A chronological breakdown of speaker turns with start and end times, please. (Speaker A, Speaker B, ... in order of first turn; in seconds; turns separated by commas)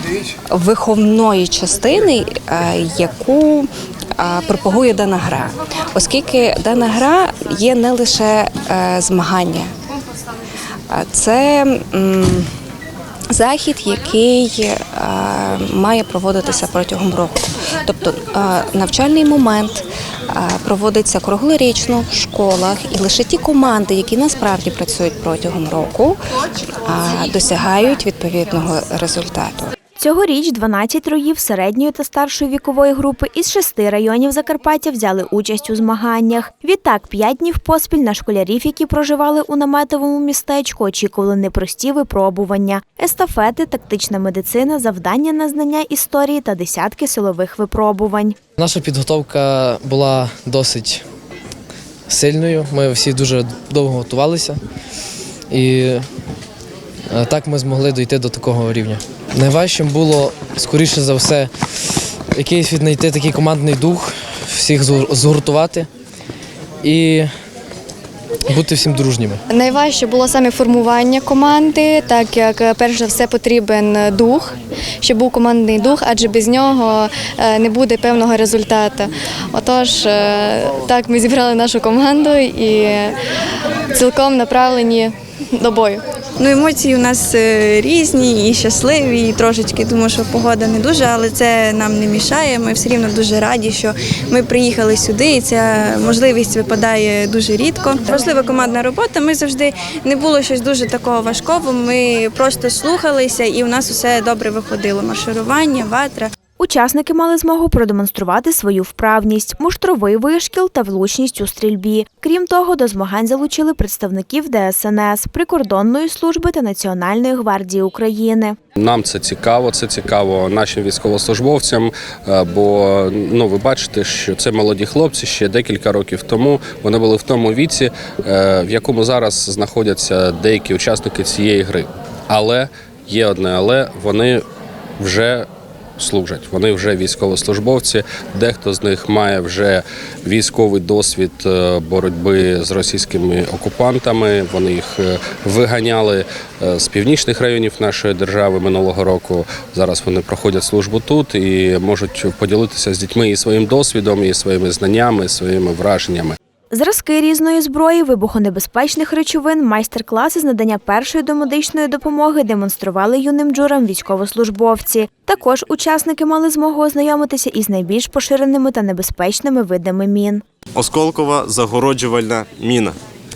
Speaker A: 0.5-9.7, Speaker A: 10.9-12.5, Speaker A: 13.3-26.2, Speaker A: 26.8-29.7, Speaker B: 30.0-48.4, Speaker C: 48.6-51.0, Speaker C: 52.1-54.6, Speaker C: 55.5-56.0, Speaker C: 57.1-65.9, Speaker C: 66.8-67.3, Speaker C: 68.5-69.4, Speaker D: 69.5-83.2, Speaker D: 83.9-86.0, Speaker E: 86.4-106.3, Speaker B: 106.6-118.6, Speaker F: 118.8-134.4, Speaker F: 135.0-135.5, Speaker F: 136.0-156.4, Speaker B: 156.7-170.4, Speaker G: 170.8-173.0